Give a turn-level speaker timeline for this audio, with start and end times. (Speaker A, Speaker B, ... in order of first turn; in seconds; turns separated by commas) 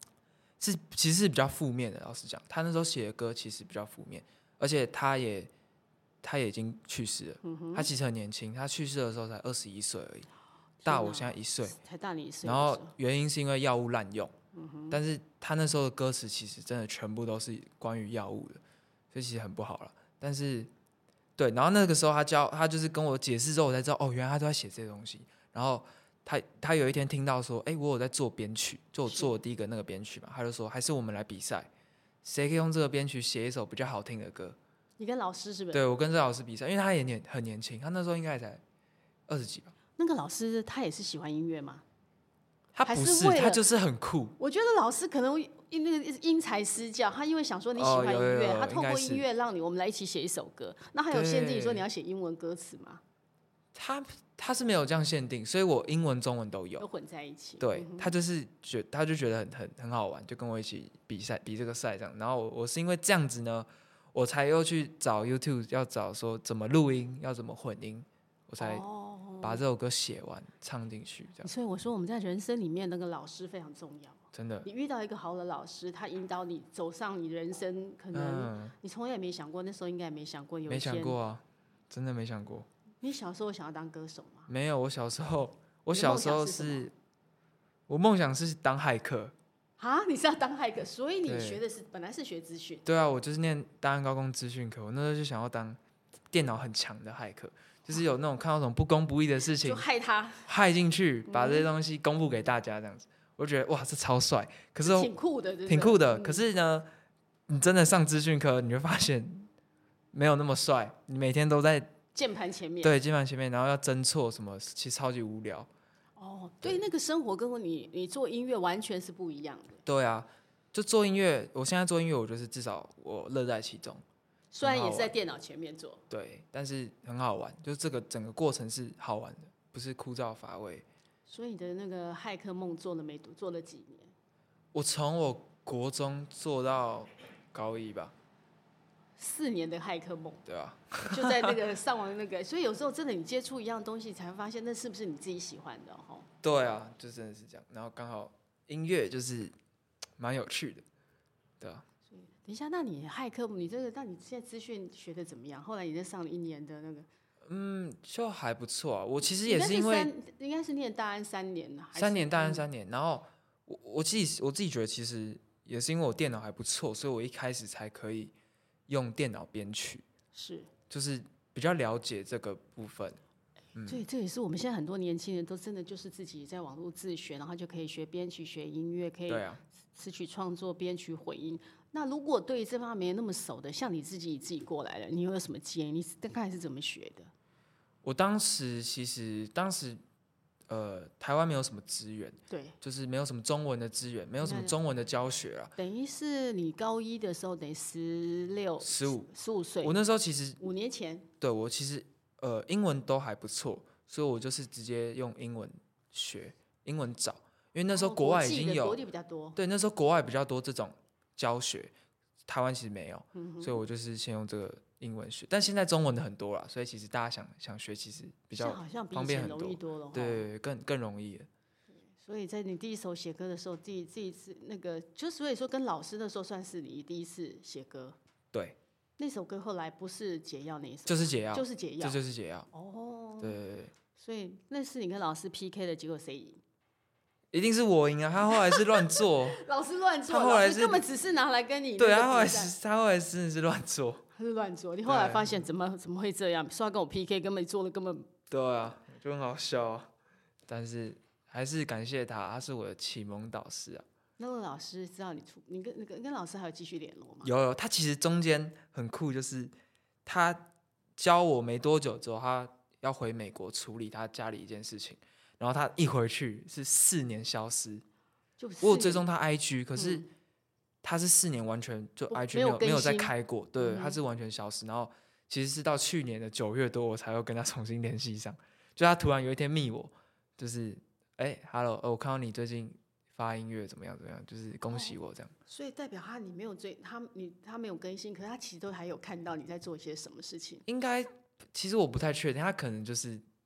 Speaker A: 0.6-5.5, Speaker A: 6.2-10.3, Speaker B: 7.4-7.9, Speaker B: 10.8-12.9, Speaker A: 10.8-11.8, Speaker A: 12.4-14.3, Speaker B: 14.5-15.0, Speaker A: 14.9-18.6, Speaker A: 19.1-20.7, Speaker A: 21.4-31.7, Speaker B: 29.0-29.4, Speaker A: 32.2-34.6, Speaker B: 35.0-35.8, Speaker A: 35.7-38.6, Speaker A: 39.3-39.7, Speaker B: 40.0-41.8, Speaker A: 42.7-44.3, Speaker B: 42.9-43.6, Speaker B: 44.4-53.0, Speaker A: 47.7-49.2, Speaker A: 51.1-51.9, Speaker A: 53.7-56.8, Speaker B: 56.8-58.1, Speaker A: 57.6-68.8, Speaker B: 68.6-69.6, Speaker A: 69.4-71.5, Speaker B: 71.4-81.2, Speaker A: 74.3-74.7, Speaker A: 78.1-78.7, Speaker A: 80.7-82.7, Speaker B: 83.0-84.5, Speaker A: 84.5-86.9, Speaker B: 85.9-86.9, Speaker A: 87.9-89.3, Speaker B: 89.8-92.8, Speaker A: 91.2-91.6, Speaker A: 92.8-95.8, Speaker A: 96.3-99.8, Speaker B: 99.6-100.5, Speaker A: 100.4-105.1, Speaker B: 101.3-101.7, Speaker B: 104.8-106.4, Speaker A: 105.7-106.9, Speaker A: 107.5-109.5, Speaker A: 110.1-111.9, Speaker B: 112.1-112.9, Speaker A: 112.8-115.7, Speaker B: 116.2-119.8, Speaker A: 119.8-124.0, Speaker B: 124.5-126.0, Speaker A: 124.6-125.1, Speaker A: 126.1-130.8, Speaker B: 131.3-134.1, Speaker A: 134.7-138.1, Speaker B: 139.2-140.4, Speaker A: 140.4-141.5, Speaker B: 141.0-146.3, Speaker A: 146.4-149.5, Speaker A: 150.2-150.8, Speaker A: 151.6-151.8, Speaker B: 152.1-157.1, Speaker A: 157.5-160.1, Speaker B: 159.4-162.7, Speaker A: 161.9-168.3, Speaker A: 168.9-170.1, Speaker B: 170.3-170.7, Speaker A: 170.9-173.2, Speaker A: 173.7-174.0, Speaker B: 173.8-187.3, Speaker A: 179.3-179.6, Speaker A: 188.0-190.0, Speaker A: 190.7-195.7, Speaker B: 192.5-192.8, Speaker B: 194.4-194.8, Speaker B: 195.8-200.0, Speaker A: 198.8-199.3, Speaker A: 199.8-200.6, Speaker B: 200.6-201.3, Speaker A: 201.4-209.0, Speaker B: 207.9-209.6, Speaker A: 209.6-211.9, Speaker A: 212.5-221.5, Speaker B: 213.3-213.8, Speaker B: 218.6-220.4, Speaker B: 222.1-228.2, Speaker A: 228.5-228.8, Speaker B: 229.2-232.2, Speaker A: 231.1-232.7, Speaker B: 232.7-233.6, Speaker A: 233.4-233.9, Speaker B: 234.2-236.6, Speaker A: 237.5-239.6, Speaker B: 238.5-242.7, Speaker A: 240.3-241.0, Speaker A: 242.0-244.2, Speaker B: 244.3-248.3, Speaker A: 245.1-245.6, Speaker A: 248.5-250.1, Speaker A: 250.7-254.0, Speaker B: 254.4-257.5, Speaker A: 257.4-259.7, Speaker A: 260.2-268.0, Speaker B: 268.6-269.2, Speaker A: 268.8-270.2, Speaker B: 269.9-270.3, Speaker A: 271.0-285.5, Speaker B: 272.3-274.2, Speaker B: 284.9-285.1, Speaker B: 285.7-290.8, Speaker A: 290.9-293.5